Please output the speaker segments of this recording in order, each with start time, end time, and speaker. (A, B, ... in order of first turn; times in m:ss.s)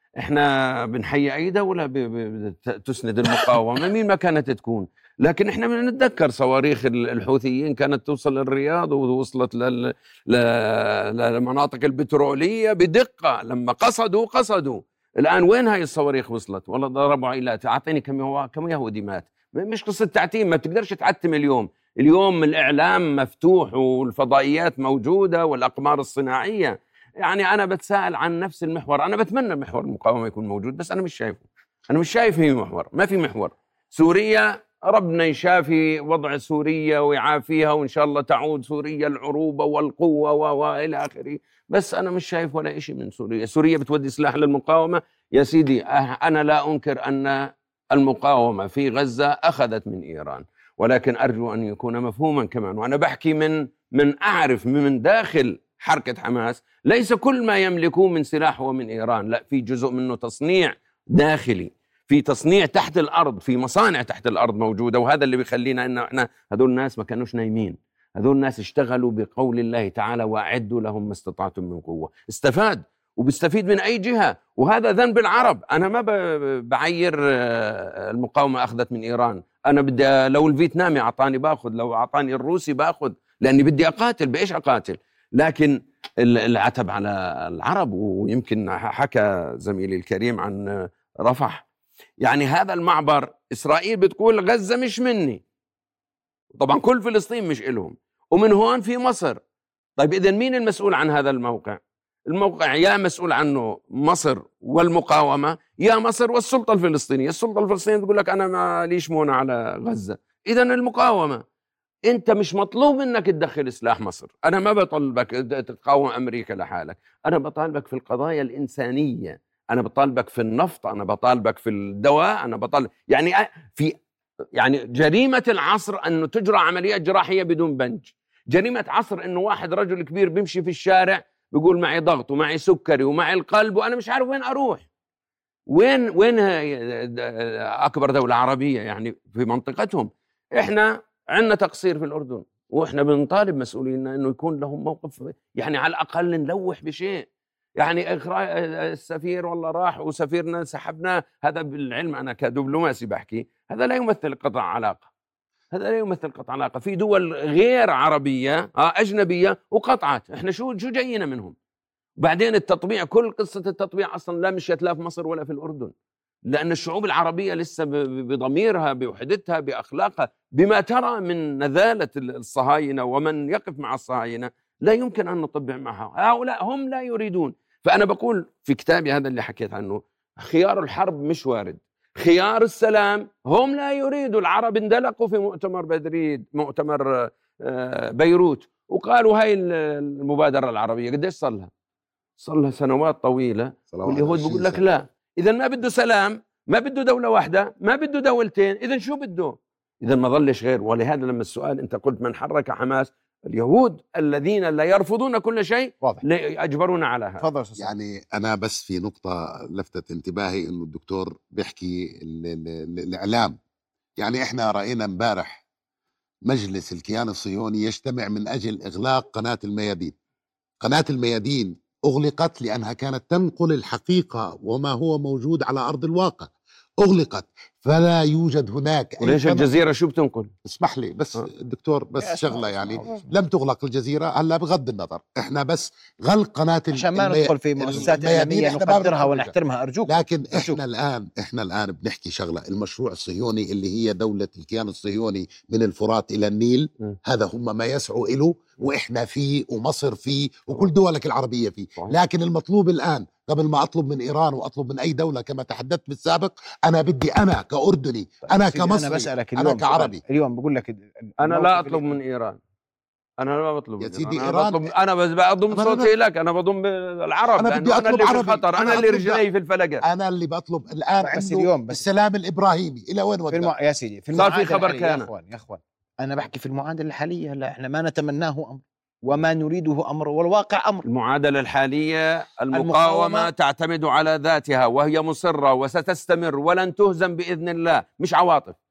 0:00.2-1:31.6 A
1:32.2-1:35.4 A
1:36.6-1:39.4 A
1:40.0-1:51.4 A
1:52.1-2:03.9 A
2:04.5-2:14.8 A
2:15.7-2:27.2 A
2:27.8-2:35.1 A
2:35.7-2:41.5 A
2:42.2-2:45.9 A
2:46.5-3:11.7 A
3:12.4-3:27.5 A
3:13.9-3:14.8 B
3:27.4-3:27.9 C
3:27.8-3:33.6 B
3:34.2-3:35.6 B
3:36.4-3:40.1 B
3:40.8-3:49.7 B
3:49.2-3:50.5 A
3:50.6-3:59.5 B
3:52.2-3:53.3 C
3:56.9-4:00.8 C
4:00.0-4:20.2 B
4:18.4-4:22.1 C
4:21.4-4:22.6 A
4:23.4-4:30.0 A
4:24.0-4:24.9 B
4:25.7-4:26.1 B
4:27.5-4:29.4 B
4:30.0-4:33.7 B
4:31.2-4:32.0 C
4:33.5-4:41.0 C
4:34.3-4:35.3 A
4:41.0-4:48.8 A
4:42.7-4:43.5 C